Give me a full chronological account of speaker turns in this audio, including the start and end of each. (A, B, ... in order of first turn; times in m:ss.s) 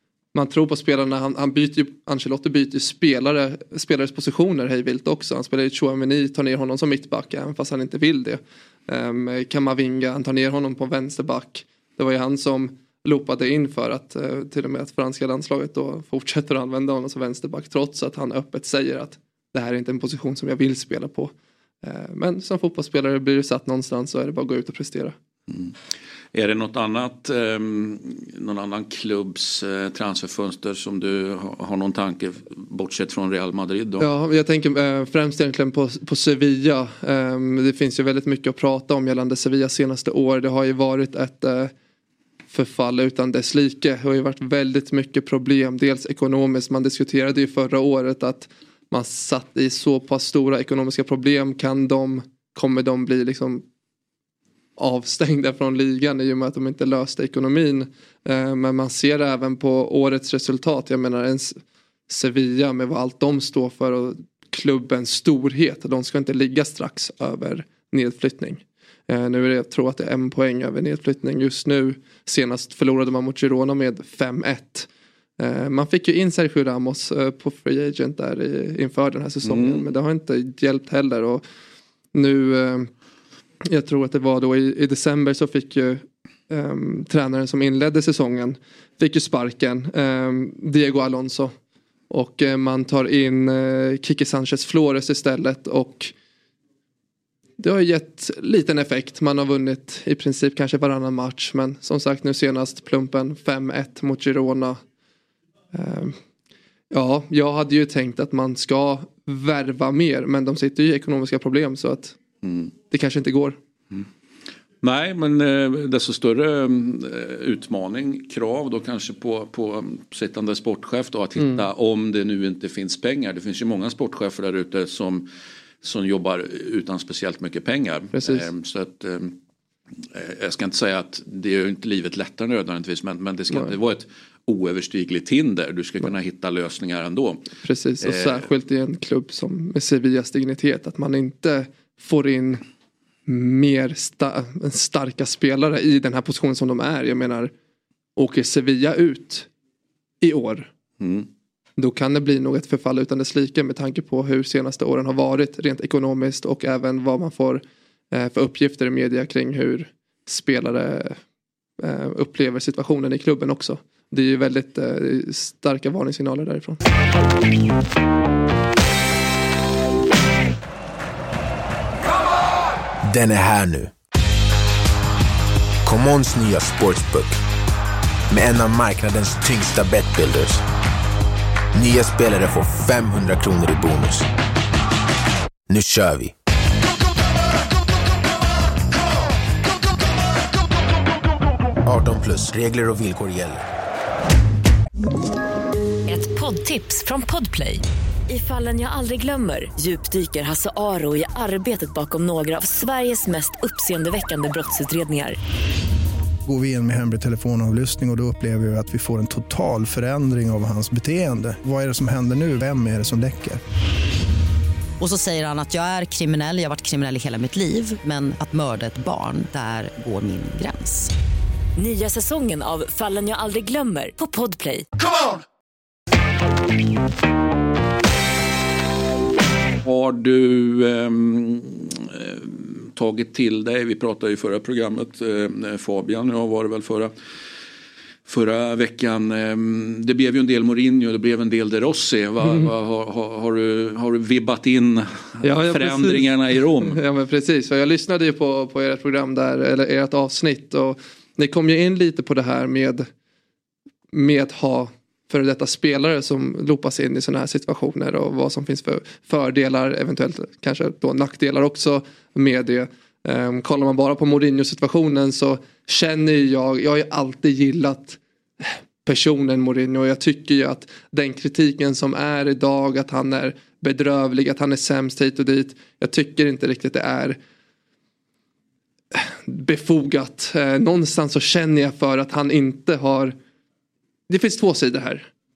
0:00.3-0:25.2 A
0:25.5-0:25.8 B
0:26.3-0:34.1 B
0:34.0-0:41.7 A
0:42.5-0:53.6 A
0:54.8-1:14.9 A
1:15.4-1:21.4 A
1:19.4-1:19.8 B
1:22.1-1:22.9 A
1:23.6-1:31.5 A
1:32.1-1:36.1 A
1:37.6-1:44.8 A
1:45.7-1:46.2 A
1:46.9-1:52.2 A
1:52.4-1:52.7 B
1:52.9-1:53.6 A
1:54.8-2:05.3 B
2:01.4-2:01.6 A
2:05.8-2:09.4 B
2:08.1-2:08.5 A
2:10.1-2:17.5 B
2:17.6-2:22.6 A
2:18.0-2:18.5 B
2:23.3-2:27.5 A
2:28.2-2:29.5 A
2:30.2-2:30.7 A
2:31.0-2:31.3 B
2:31.8-2:41.2 A
2:41.8-2:46.8 A
2:53.0-2:53.9 C
2:55.8-2:57.4 C
2:58.3-3:00.6 C
3:01.7-3:04.3 C
3:05.7-3:06.4 C
3:11.8-3:13.6 C
3:16.1-3:25.4 D
3:26.4-3:33.6 E
3:35.0-3:41.1 F
3:41.8-3:44.9 D
3:49.8-3:57.1 B
3:58.3-4:07.0 B
4:02.4-4:02.7 A
4:05.4-4:13.1 A
4:14.1-4:37.4 A
4:39.1-4:43.4 A
4:44.3-4:45.3 A